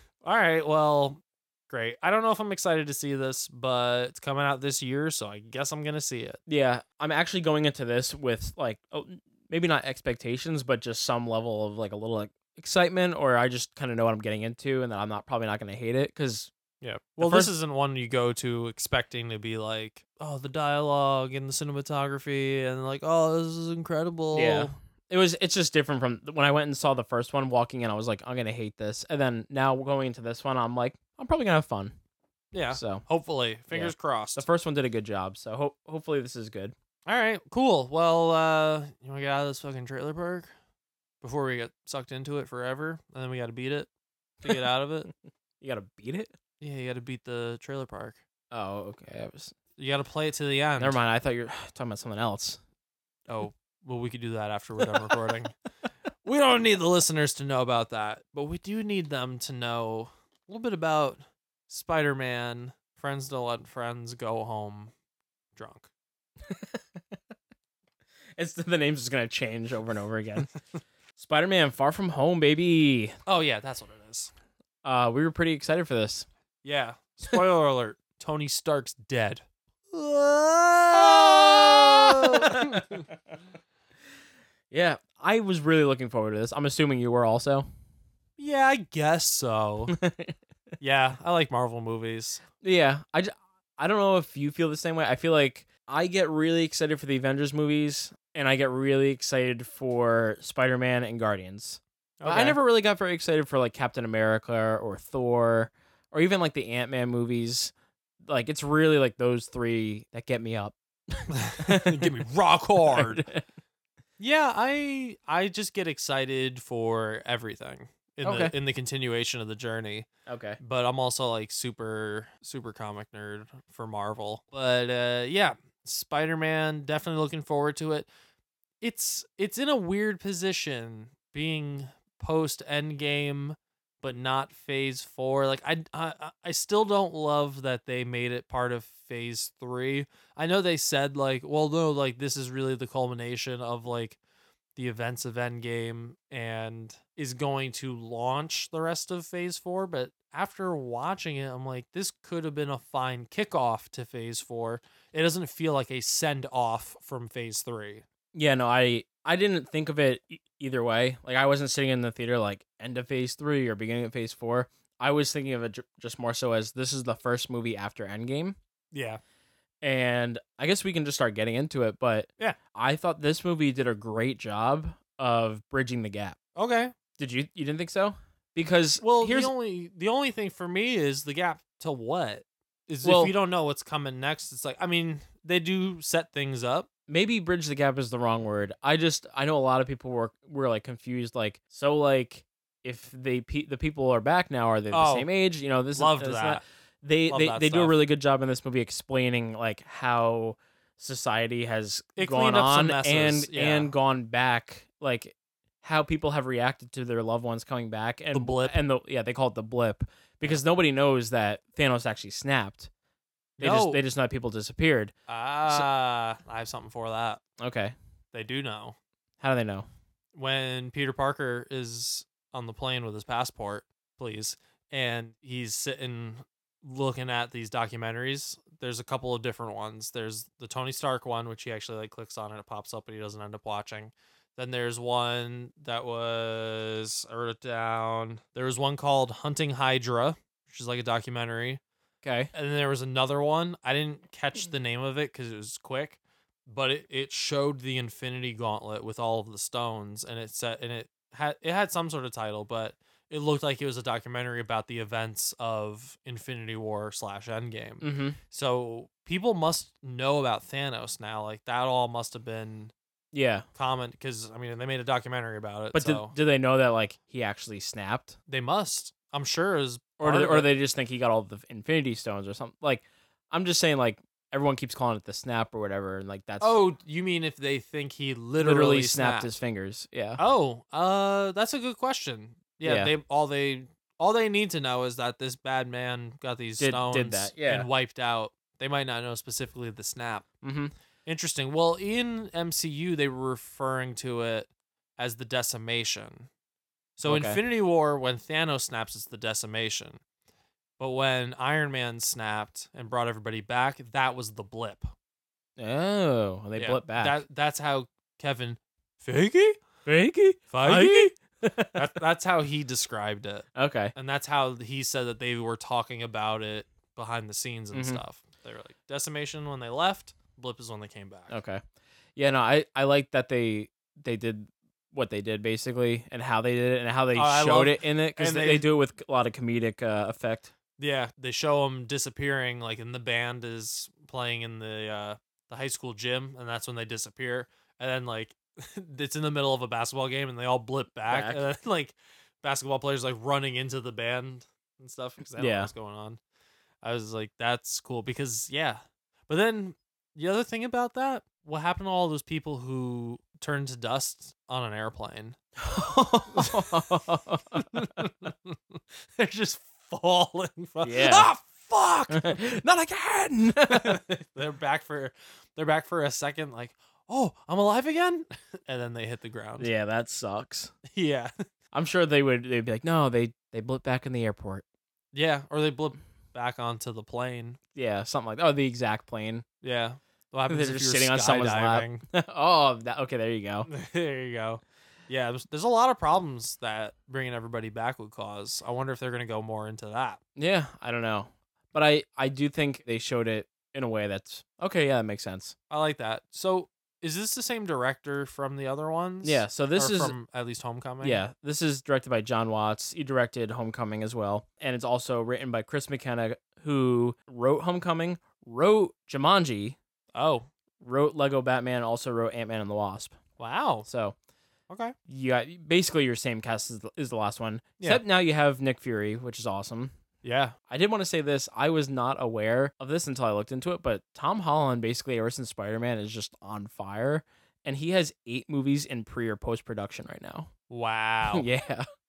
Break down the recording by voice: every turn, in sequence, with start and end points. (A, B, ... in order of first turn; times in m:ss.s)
0:00.2-0:06.4 A
0:06.5-0:16.5 B
0:16.8-0:24.7 A
0:17.2-0:17.5 B
0:24.3-0:31.9 B
0:32.5-0:34.4 A
0:32.7-0:33.0 B
0:33.7-0:36.7 B
0:37.1-0:40.5 A
0:41.2-0:43.9 A
0:44.4-0:45.1 A
0:45.6-0:46.3 B
0:46.6-0:48.2 A
0:48.5-0:49.5 B
0:49.8-0:51.0 A
0:50.8-0:52.6 B
0:53.3-0:55.5 A
0:54.8-0:55.1 B
0:56.2-1:04.9 A
1:05.5-1:05.9 A
1:06.4-1:07.2 B
1:08.4-1:10.5 B
1:11.2-1:13.2 B
1:13.3-1:14.3 A
1:14.8-1:16.3 B
1:16.6-1:23.1 A
1:20.9-1:22.8 B
1:24.7-1:27.7 B
1:28.4-1:30.0 A
1:29.9-1:30.4 B
1:30.8-1:32.4 A
1:32.6-1:52.1 B
1:42.2-1:42.6 A
1:51.3-1:53.2 A
1:52.9-1:53.4 B
1:54.2-2:00.1 A
1:58.2-1:58.5 B
2:00.2-2:00.6 B
2:00.6-2:08.1 A
2:08.8-2:24.2 A
2:24.8-2:38.0 A
2:38.3-2:48.6 B
2:48.9-2:49.2 A
2:49.8-2:56.4 B
2:56.6-2:56.9 A
2:57.2-2:59.5 B
2:59.0-3:06.9 A
3:03.0-3:03.4 B
3:07.1-3:32.9 B
3:14.9-3:15.3 A
3:15.9-3:16.6 A
3:17.3-3:18.0 A
3:22.2-3:23.9 A
3:28.3-3:28.8 A
3:33.6-3:35.1 B
3:33.6-3:34.0 A
3:35.3-3:37.4 A
3:37.6-3:37.9 B
3:38.3-3:39.0 A
3:39.4-3:39.9 B
3:40.4-4:01.8 A
4:02.2-4:02.5 B
4:02.5-4:22.9 A
4:18.0-4:18.4 B
4:23.3-4:23.6 B
4:23.8-4:26.4 A
4:25.9-4:28.4 B
4:28.5-4:30.7 A
4:30.2-4:36.8 B
4:36.6-4:39.5 A
4:38.6-4:40.4 B
4:40.4-4:50.4 A
4:42.8-4:43.1 B
4:46.8-4:47.9 B
4:50.6-4:50.9 B
4:51.2-4:56.5 A
4:57.2-5:00.2 A
4:57.2-4:57.6 B
5:01.0-5:05.1 A
5:05.8-5:07.4 B
5:06.8-5:09.8 A
5:10.1-5:12.1 B
5:10.7-5:11.3 A
5:11.9-5:21.5 A
5:13.8-5:14.1 B
5:17.9-5:18.2 B
5:21.5-5:21.8 B
5:22.4-5:30.7 B
5:27.4-5:28.9 A
5:31.0-5:46.4 A
5:41.3-5:41.6 B
5:45.6-5:45.9 B
5:47.0-5:55.6 A
5:55.8-5:58.2 B
5:56.5-5:57.0 A
5:57.7-6:02.5 A
6:01.0-6:01.5 B
6:02.3-6:04.3 B
6:03.9-6:09.9 A
6:09.8-6:10.9 B
6:11.1-6:11.5 A
6:11.9-6:14.8 B
6:15.3-6:17.8 A
6:17.9-6:19.6 B
6:19.8-6:22.2 A
6:20.7-6:23.9 B
6:23.9-6:30.4 A
6:30.6-6:35.7 B
6:35.9-6:41.4 A
6:39.4-6:40.4 B
6:41.2-6:50.0 B
6:50.3-6:50.7 A
6:51.0-6:53.4 B
6:53.6-6:54.1 A
6:54.0-6:54.4 B
6:54.9-6:55.1 A
6:55.3-7:00.2 B
7:00.4-7:00.8 A
7:00.9-7:10.7 B
7:10.9-7:11.7 A
7:11.5-7:12.1 B